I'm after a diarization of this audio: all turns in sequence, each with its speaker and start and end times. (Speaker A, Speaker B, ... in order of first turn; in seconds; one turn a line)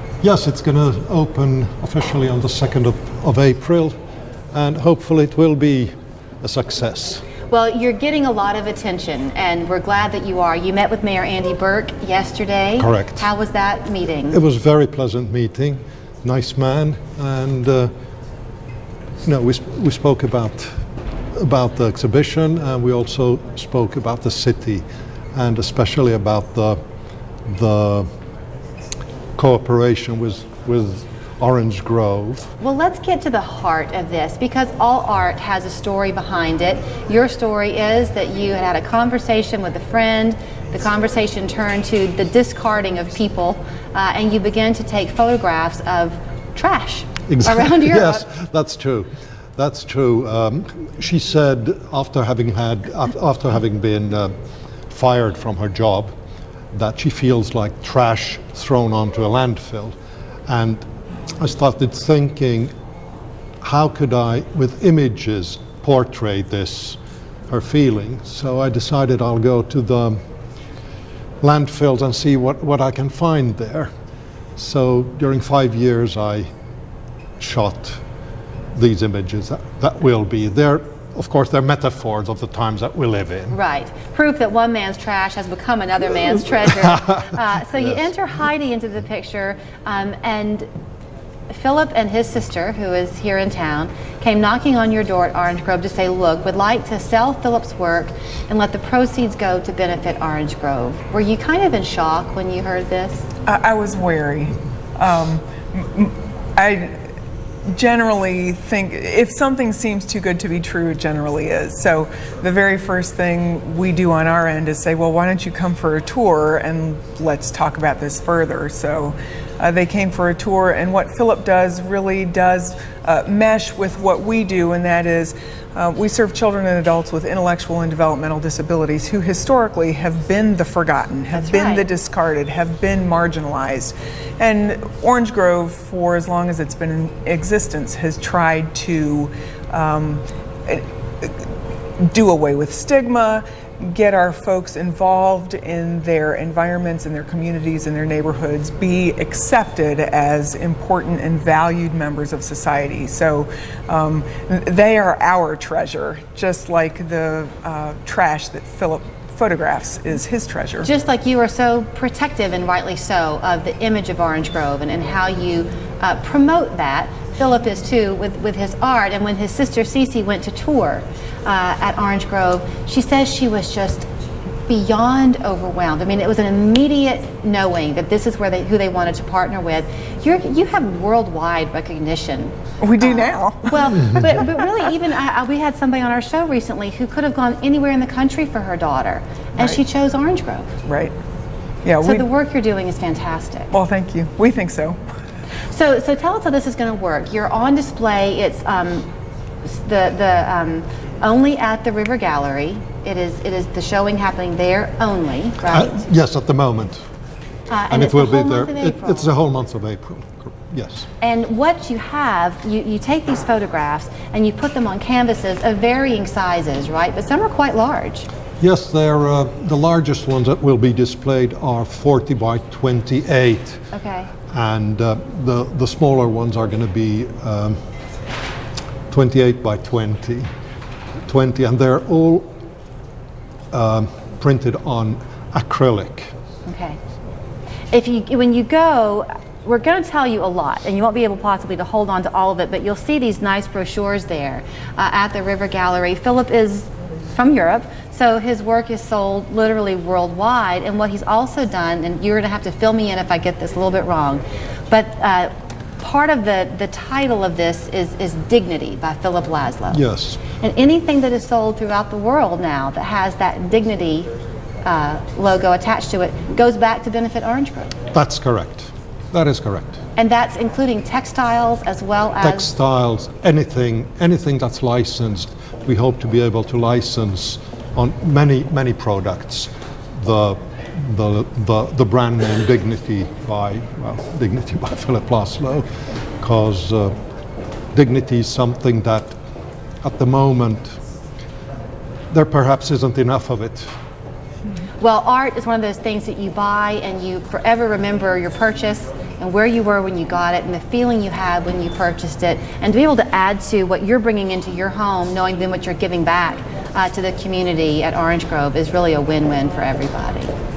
Speaker A: 0.2-3.9
Speaker A: 4.5-7.2
Speaker B: 7.5-14.4
Speaker A: 12.8-13.3
Speaker A: 14.3-17.9
Speaker A: 19.2-20.8
Speaker A: 21.3-26.8
Speaker A: 27.5-28.1
Speaker A: 29.4-32.5
Speaker B: 32.6-48.3
Speaker A: 47.3-54.3
Speaker A: 54.9-56.1
Speaker A: 56.7-60.0
Speaker A: 60.5-60.8
Speaker A: 61.4-62.7
Speaker A: 63.6-67.0
Speaker A: 67.5-70.2
Speaker A: 71.4-73.9
Speaker A: 74.5-76.5
Speaker A: 77.4-78.0
Speaker A: 78.7-83.6
Speaker B: 83.5-90.7
Speaker B: 91.5-103.2
Speaker C: 103.5-107.0
Speaker C: 107.7-160.9
Speaker B: 131.3-131.9
Speaker B: 160.8-174.1
Speaker B: 174.7-190.7
Speaker C: 182.8-184.1
Speaker C: 190.8-191.1
Speaker C: 191.8-192.3
Speaker B: 192.0-193.7
Speaker C: 193.7-195.0
Speaker B: 195.7-199.1
Speaker B: 199.6-206.0
Speaker A: 205.7-207.0
Speaker B: 207.7-209.3
Speaker A: 207.9-211.1
Speaker B: 211.2-218.3
Speaker A: 218.6-223.8
Speaker B: 223.9-224.3
Speaker A: 224.5-227.8
Speaker A: 229.1-230.5
Speaker A: 231.3-232.5
Speaker A: 233.7-236.3
Speaker B: 236.7-237.0
Speaker B: 237.9-264.3
Speaker A: 259.9-260.4
Speaker B: 264.8-267.9
Speaker A: 268.1-270.0
Speaker B: 270.2-272.7
Speaker A: 272.4-285.9
Speaker A: 286.4-287.1
Speaker A: 287.9-289.3
Speaker A: 290.0-291.0
Speaker A: 292.3-293.9
Speaker B: 295.0-310.5